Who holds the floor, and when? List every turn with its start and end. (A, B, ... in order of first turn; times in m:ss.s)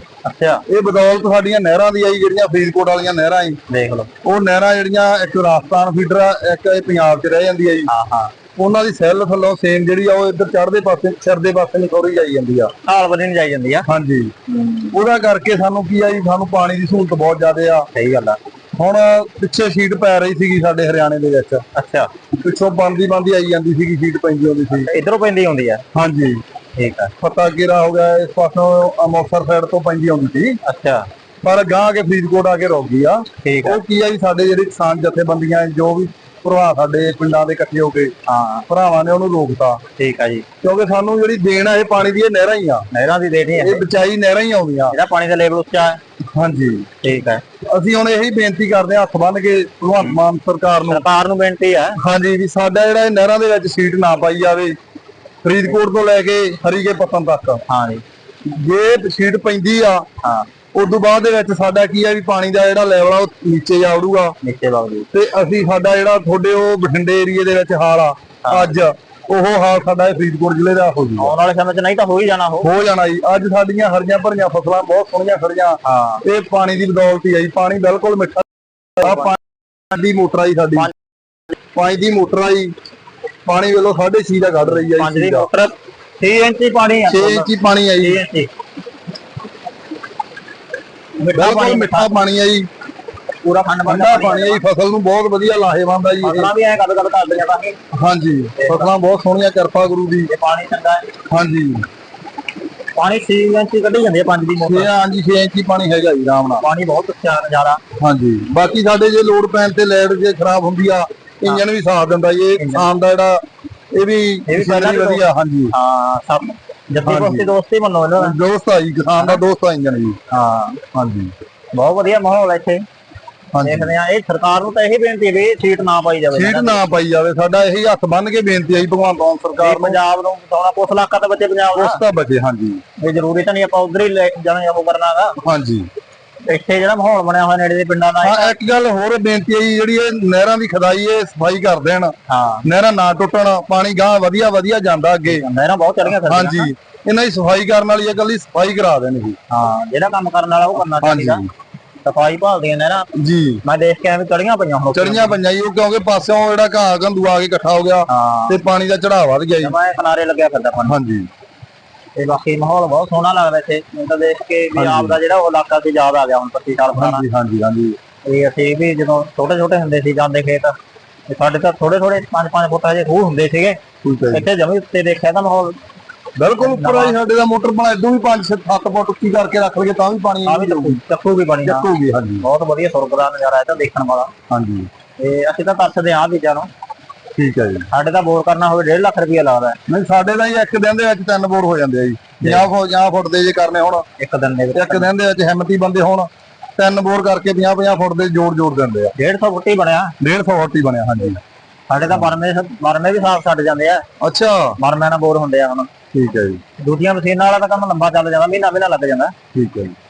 0:00.2-0:00.6 A
0:00.7-0:03.6 B
0:03.7-0:04.1 A
0:04.2-0:07.9 B
0:07.9-0:08.3 A
0:08.6-0:12.7 B
0:12.8-0:13.9 A
0:13.9-0:14.3 B
0:14.5-0:15.0 A
0:14.9-0:17.8 B
0:17.9-0:18.4 A
0:18.8-0:21.6 B
0:21.7-0:22.1 A
0:22.3-0:24.9 B
0:24.7-0:25.8 A
0:25.9-0:26.4 B
0:26.8-0:27.1 A
0:27.2-0:30.6 B
0:30.6-0:31.0 A
0:31.4-0:38.1 B
0:33.4-0:33.8 A
0:38.2-0:38.7 A
0:38.7-0:39.8 B
0:40.0-0:40.4 A
0:40.6-0:42.8 B
0:42.9-0:43.8 A
0:43.6-0:44.9 B
0:44.9-0:46.0 A
0:46.3-0:46.9 B
0:47.0-0:47.4 A
0:47.7-0:51.1 B
0:50.9-0:52.0 A
0:52.0-0:54.7 B
0:55.4-0:57.6 B
0:57.7-0:58.0 A
0:58.5-1:00.0 B
1:00.2-1:00.5 A
1:00.7-1:04.3 B
1:04.4-1:05.1 A
1:05.1-1:11.3 B
1:08.4-1:08.7 A
1:11.2-1:12.7 A
1:12.6-1:18.4 B
1:15.8-1:16.2 A
1:19.0-1:20.9 B
1:19.0-1:19.3 A
1:21.7-1:22.7 B
1:23.4-1:25.5 B
1:24.7-1:28.5 A
1:27.1-1:28.2 B
1:31.2-1:32.2 A
1:31.3-1:32.7 B
1:33.4-1:34.6 A
1:33.9-1:36.5 B
1:36.2-1:37.8 A
1:37.9-1:40.3 B
1:38.6-1:38.9 A
1:40.3-1:41.0 A
1:41.3-1:41.8 B
1:42.9-1:44.9 A
1:44.6-1:46.6 B
1:46.6-1:47.8 A
1:48.0-1:55.7 B
1:52.6-1:52.8 A
1:54.5-1:58.4 A
1:57.0-1:57.5 B
1:58.2-2:00.2 B
2:00.3-2:00.8 A
2:00.9-2:01.3 B
2:01.7-2:02.8 A
2:03.5-2:03.9 B
2:03.6-2:06.8 A
2:06.3-2:10.0 B
2:09.6-2:12.0 A
2:11.7-2:12.8 B
2:13.0-2:15.4 A
2:15.4-2:15.9 B
2:16.5-2:18.5 A
2:18.2-2:22.1 B
2:22.3-2:22.6 A
2:22.6-2:25.4 B
2:25.3-2:26.7 A
2:26.1-2:29.4 B
2:29.5-2:31.4 A
2:31.0-2:31.5 B
2:32.0-2:33.0 A
2:33.2-2:33.6 B
2:33.6-2:35.4 A
2:34.9-2:39.8 B
2:38.1-2:38.6 A
2:39.6-2:41.0 A
2:40.9-2:41.3 B
2:42.2-2:47.2 A
2:44.7-2:45.2 B
2:46.9-2:48.0 B
2:48.2-2:50.8 A
2:51.3-2:53.8 A
2:54.0-2:54.5 B
2:54.3-2:55.8 A
2:56.4-3:01.0 B
2:56.6-2:57.2 A
3:00.4-3:01.9 A
3:01.6-3:02.4 B
3:02.4-3:04.3 A
3:04.5-3:04.9 B
3:05.2-3:06.7 A
3:07.4-3:07.9 B
3:07.9-3:09.8 A
3:09.9-3:14.0 B
3:12.4-3:12.7 A
3:14.2-3:15.1 A
3:14.7-3:19.1 B
3:19.2-3:20.1 A
3:20.2-3:21.4 B
3:21.9-3:24.0 A
3:24.2-3:24.7 B
3:24.8-3:25.9 A
3:26.1-3:26.6 B
3:26.8-3:29.3 A
3:29.5-3:29.9 B